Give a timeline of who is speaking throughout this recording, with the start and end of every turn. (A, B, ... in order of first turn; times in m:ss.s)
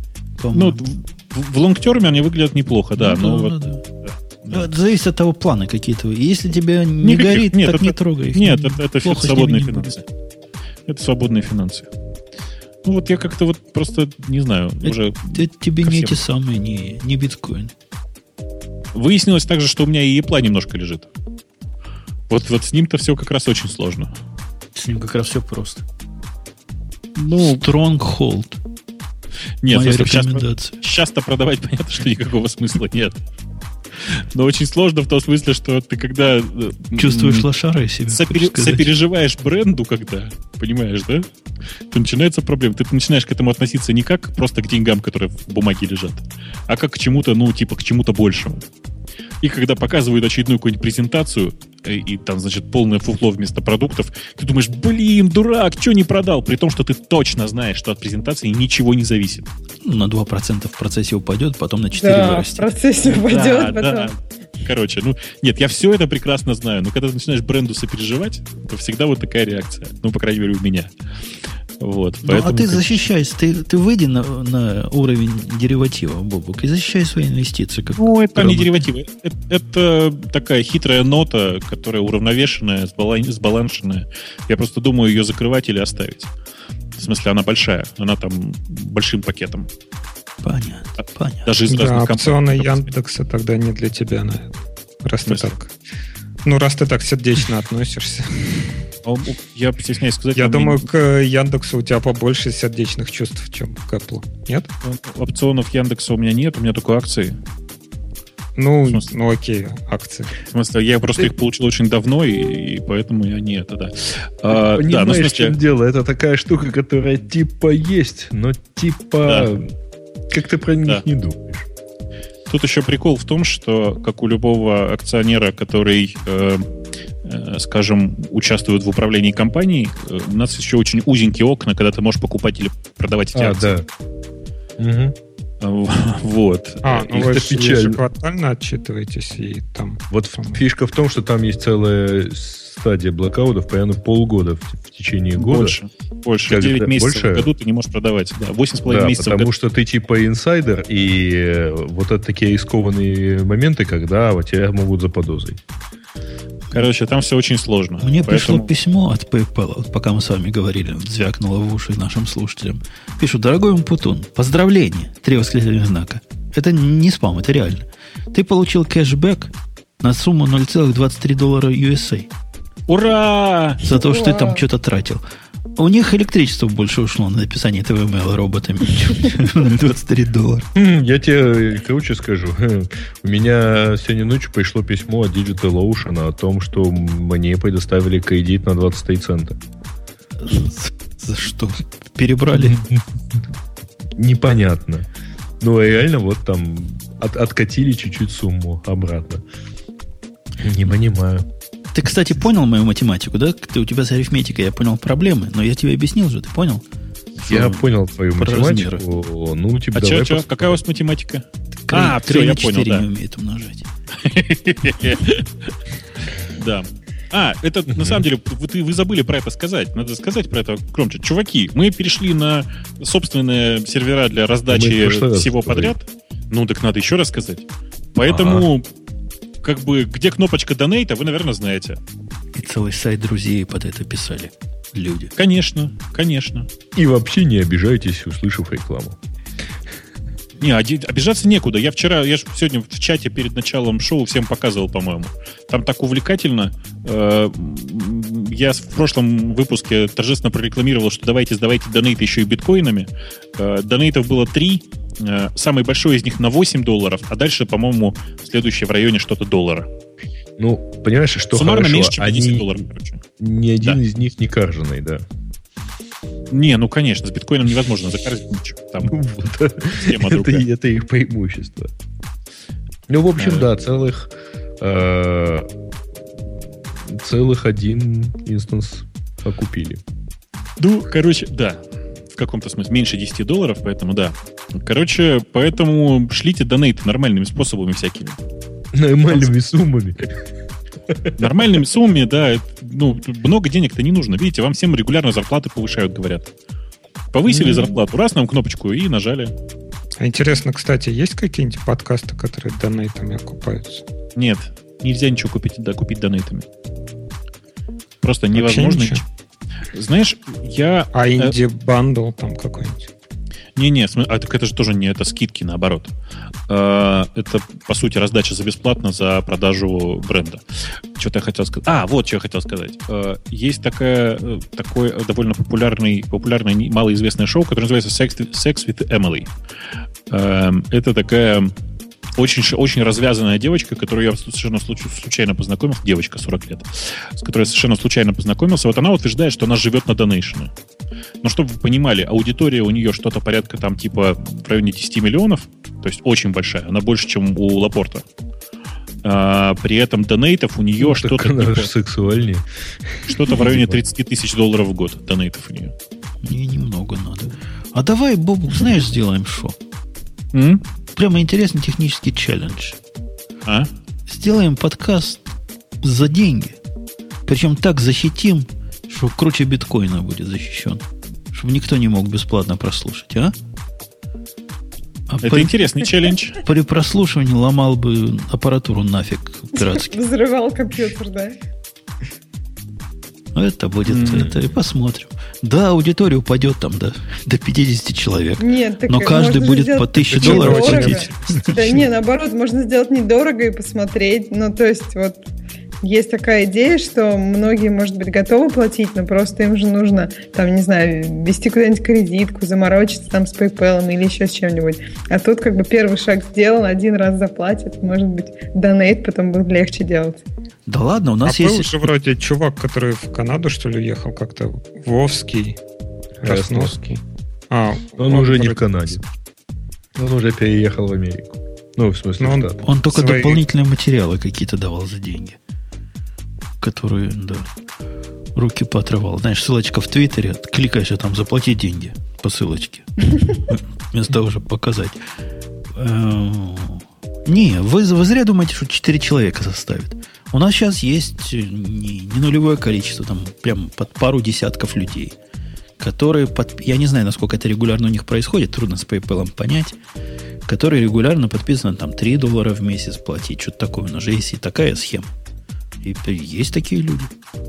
0:00.4-0:00.8 A
0:00.5-0:04.7 B
0:03.0-0:03.8 A
0:04.5-0:10.0 A
0:07.0-0:10.0 B
0:10.9-0:11.9 B
0:12.8-0:16.2 B
0:14.8-0:17.7 A
0:18.9-0:21.1 B
0:22.3-0:24.1 B
0:24.7-0:25.8 A
0:27.2-0:27.6 B
0:27.4-0:28.6 A
0:29.6-0:33.2 B
0:29.7-0:30.8 A
0:34.0-0:37.5 B
0:37.0-0:38.9 A
0:38.1-0:41.3 B
0:41.9-0:48.6 B
0:49.4-0:59.5 B
0:59.8-1:02.7 A
1:01.9-1:04.1 C
1:03.0-1:10.9 B
1:11.8-1:13.0 B
1:12.2-1:18.7 A
1:18.0-1:26.3 B
1:27.0-1:29.7 B
1:30.4-1:31.5 A
1:31.4-1:32.9 B
1:31.7-1:34.5 D
1:35.0-1:35.7 D
1:35.2-1:35.5 B
1:36.4-1:38.8 D
1:39.0-1:40.9 B
1:40.4-1:44.7 D
1:44.8-1:47.4 B
1:48.6-1:50.3 D
1:50.4-1:55.6 B
1:54.5-1:59.7 E
1:59.2-1:59.5 B
2:00.3-2:01.7 E
2:02.5-2:06.7 B
2:07.2-2:13.8 B
2:13.3-2:13.8 E
2:14.8-2:15.1 E
2:15.6-2:17.3 B
2:16.8-2:20.6 D
2:17.1-2:18.0 E
2:20.1-2:25.8 E
2:25.4-2:29.5 B
2:26.5-2:27.5 E
2:28.8-2:35.6 E
2:36.7-2:38.7 B
2:38.0-2:52.3 A
2:52.9-2:53.8 B
2:53.8-2:55.2 A
2:53.9-2:54.6 C
2:55.8-3:00.7 A
3:00.7-3:09.6 E
3:10.4-3:12.8 A
3:12.5-3:13.4 E
3:14.2-3:15.1 E
3:15.6-3:19.4 E
3:20.6-3:21.5 E
3:21.9-3:26.8 A
3:27.4-3:27.8 A
3:27.4-3:30.8 E
3:28.4-3:29.0 A
3:29.9-3:33.0 B
3:31.9-3:33.9 A
3:34.2-3:35.7 B
3:36.3-3:48.8 B
3:37.9-3:38.2 E
3:44.7-3:45.9 E
3:48.3-3:48.7 E
3:49.6-3:52.0 B
3:52.5-3:55.3 A
3:55.4-3:56.7 B
3:56.9-3:59.2 E
4:00.6-4:19.9 B
4:20.6-4:22.8 E
4:21.5-4:23.2 B
4:23.4-4:25.2 E
4:26.5-4:29.2 B
4:29.0-4:31.9 E
4:30.0-4:30.7 B
4:33.1-4:35.7 E
4:33.4-4:33.7 B
4:37.1-4:40.0 E
4:40.8-4:48.4 B
4:48.9-4:50.3 E
4:51.1-4:51.5 E
4:51.4-4:56.5 B
4:57.3-4:59.5 B
4:57.5-4:57.9 E
5:00.2-5:04.0 D
5:04.3-5:06.7 B
5:08.2-5:09.2 B
5:08.5-5:09.2 D
5:09.9-5:11.6 B
5:11.1-5:13.1 D
5:13.8-5:16.1 B
5:16.7-5:29.5 B
5:30.3-5:31.7 B
5:32.4-5:40.7 B
5:41.4-5:48.2 B
5:49.2-5:51.9 B
5:51.0-5:54.0 E
5:53.3-5:55.9 B
5:56.4-5:59.8 A
6:00.5-6:00.8 B
6:01.2-6:03.0 A
6:03.6-6:03.9 B
6:04.3-6:05.5 A
6:06.0-6:06.8 A
6:07.5-6:13.5 A
6:15.3-6:15.8 A
6:15.4-6:16.6 B
6:16.6-6:20.2 A
6:19.7-6:21.6 C
6:23.5-6:31.8 A
6:24.1-6:24.5 B
6:24.3-6:24.7 E
6:28.6-6:35.4 C
6:30.3-6:32.0 D
6:36.0-6:50.4 C
6:50.8-6:52.1 A
6:51.4-6:55.8 D
6:56.4-6:58.8 D
6:56.4-6:57.0 E
6:58.2-6:59.2 E
7:00.2-7:02.8 E
7:02.4-7:03.6 D
7:02.8-7:05.6 A
7:06.8-7:07.7 A
7:08.5-7:15.2 A
7:15.9-7:25.4 A
7:26.0-7:30.0 A
7:30.6-7:35.3 A
7:36.0-7:37.3 A